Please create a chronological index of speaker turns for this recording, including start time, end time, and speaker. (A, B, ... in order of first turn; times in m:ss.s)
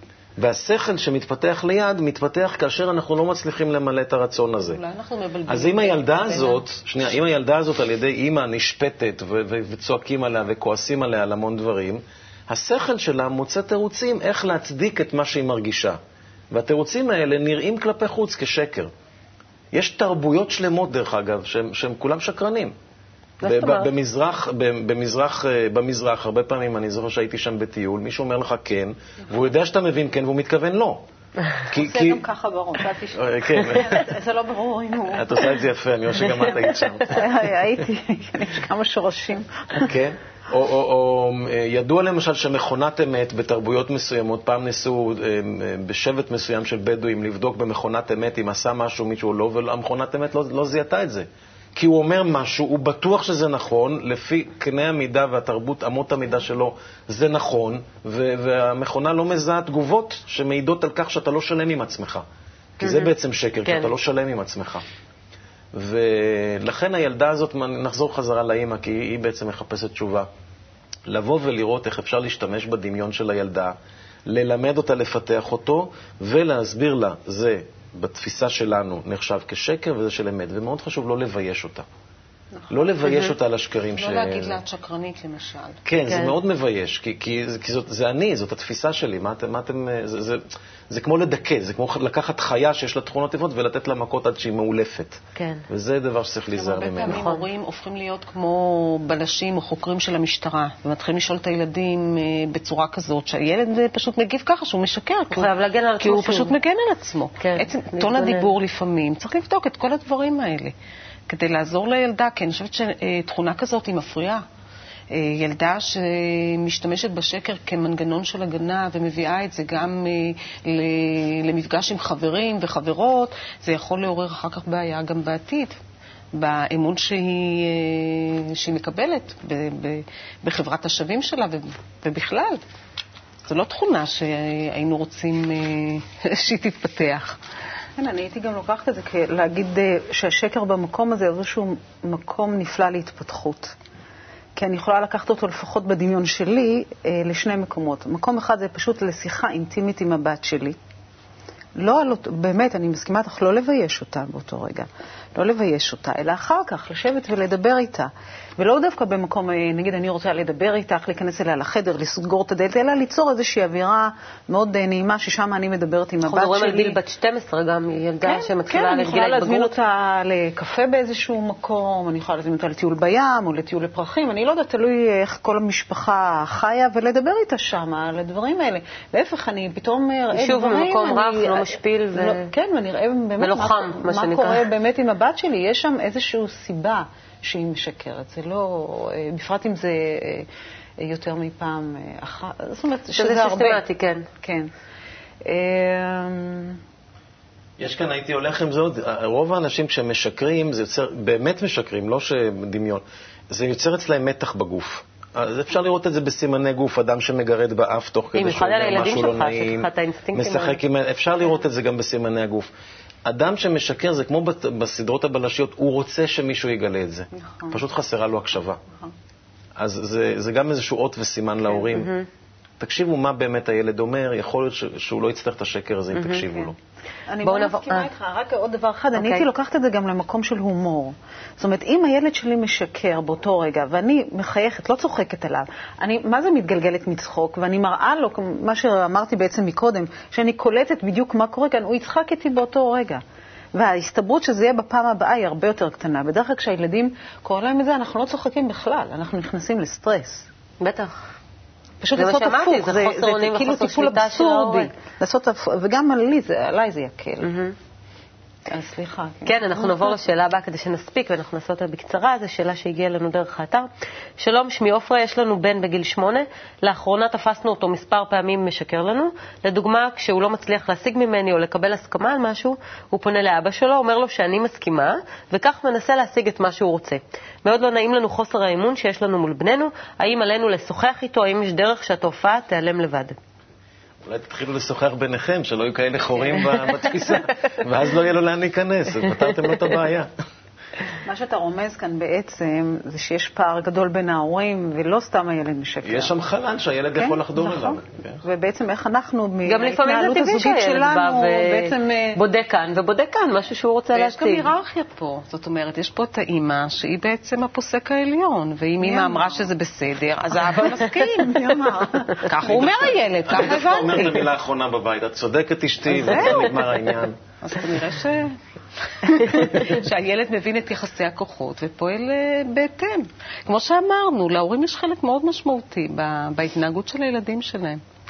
0:00.4-0:04.8 A
0:04.6-0:06.6 B
0:05.5-0:16.0 A
0:16.5-0:18.9 A
0:19.7-0:22.7 A
0:23.4-0:23.9 C
0:23.4-0:31.0 A
0:31.7-0:32.2 A
0:31.7-0:35.5 D
0:33.2-0:34.1 A
0:35.1-0:37.2 A
0:37.1-0:39.9 D
0:39.8-1:02.2 A
1:02.8-1:04.8 A
1:02.8-1:03.1 C
1:03.6-1:03.9 C
1:05.7-1:10.3 A
1:11.1-1:13.8 A
1:14.3-1:21.9 A
1:22.7-1:24.6 A
1:23.1-1:23.3 C
1:23.9-1:25.8 B
1:25.8-1:37.2 A
1:26.1-1:26.4 C
1:35.4-1:35.6 C
1:36.6-1:50.7 B
1:37.0-1:37.4 C
1:45.3-1:46.5 C
1:47.4-1:48.5 C
1:51.3-1:54.4 B
1:55.1-2:05.8 B
2:06.4-2:12.6 B
2:13.4-2:17.4 B
2:18.0-2:23.7 D
2:24.6-2:30.8 D
2:31.8-2:47.0 D
2:46.3-2:49.7 C
2:48.2-3:10.5 D
3:00.3-3:02.5 C
3:03.4-3:04.6 C
3:11.0-3:13.8 D
3:13.2-3:14.3 C
3:14.4-3:14.7 D
3:15.4-3:16.8 D
3:17.8-3:32.7 A
3:28.4-3:30.8 C
3:33.3-3:38.8 A
3:37.4-3:37.8 D
3:39.8-3:42.1 A
3:41.9-3:42.3 C
3:42.8-3:46.8 A
3:46.1-3:46.5 C
3:47.3-4:03.2 D
3:47.4-3:48.1 C
3:49.2-3:49.5 C
4:03.8-4:10.5 D
4:10.8-4:11.2 C
4:12.0-4:17.5 D
4:12.2-4:14.9 C
4:17.4-4:17.8 C
4:18.7-4:20.2 D
4:19.4-4:23.9 C
4:24.4-4:43.4 C
4:44.2-4:50.3 A
4:51.2-4:56.3 D
4:56.0-4:58.4 A
4:57.2-5:02.4 D
4:59.7-5:04.7 C
5:04.1-5:11.7 B
5:09.0-5:09.7 D
5:10.7-5:12.8 D
5:12.4-5:14.4 B
5:12.6-5:17.4 A
5:16.2-5:16.7 D
5:17.6-5:18.6 B
5:19.1-5:28.0 B